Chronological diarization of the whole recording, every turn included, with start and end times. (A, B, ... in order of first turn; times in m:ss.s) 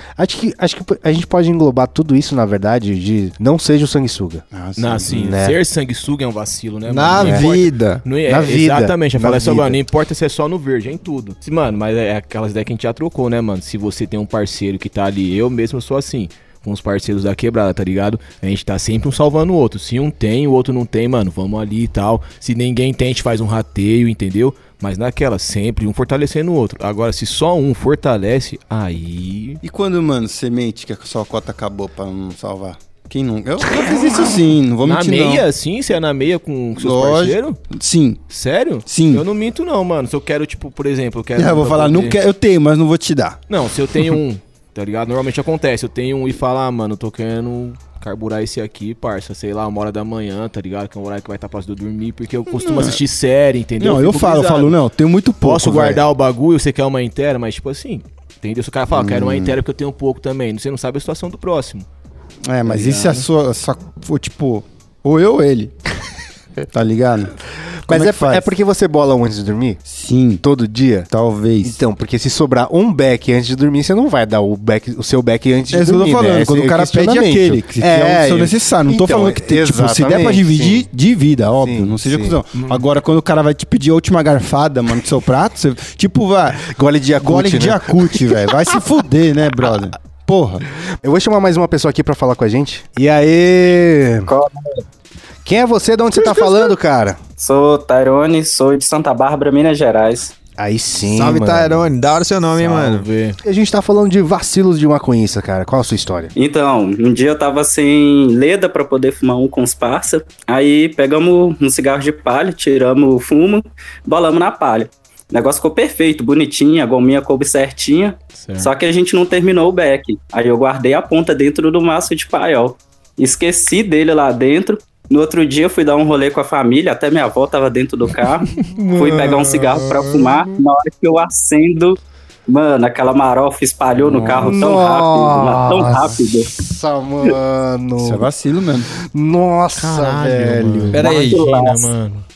0:00.2-0:04.4 A
0:04.5-0:05.1 B
0:04.8-0:29.6 C
0:05.1-0:05.6 A
0:06.9-0:08.0 D
0:07.2-0:07.5 A
0:08.2-0:09.8 A
0:29.6-0:35.4 B
0:33.9-0:34.3 C
0:34.8-0:37.6 C
0:36.8-0:38.2 B
0:38.3-0:42.2 C
0:38.8-0:39.2 B
0:41.3-0:43.4 B
0:43.5-0:54.8 C
0:52.5-0:53.0 B
0:53.8-0:56.0 B
0:55.4-1:01.9 C
0:58.9-0:59.6 B
1:02.4-1:05.7 B
1:02.6-1:03.2 C
1:06.7-1:07.4 B
1:07.8-1:09.8 A
1:07.9-1:08.5 B
1:09.8-1:10.4 B
1:10.4-1:11.1 A
1:11.1-1:11.8 B
1:11.6-1:20.8 A
1:15.7-1:26.7 B
1:21.6-1:22.4 A
1:26.6-1:28.3 A
1:27.2-1:30.6 B
1:31.0-1:34.3 A
1:34.3-1:34.8 E
1:35.4-1:37.2 A
1:37.4-1:40.3 E
1:40.6-1:41.9 A
1:41.1-1:43.1 D
1:42.6-1:43.4 C
1:43.4-1:46.3 A
1:46.3-2:16.5 E
1:58.4-1:58.7 C
2:08.6-2:10.2 C
2:14.1-2:14.5 B
2:14.2-2:14.4 C
2:14.3-2:18.3 A
2:18.0-2:18.9 B
2:19.1-2:21.0 A
2:19.8-2:22.2 C
2:20.9-2:21.4 D
2:21.0-2:21.8 E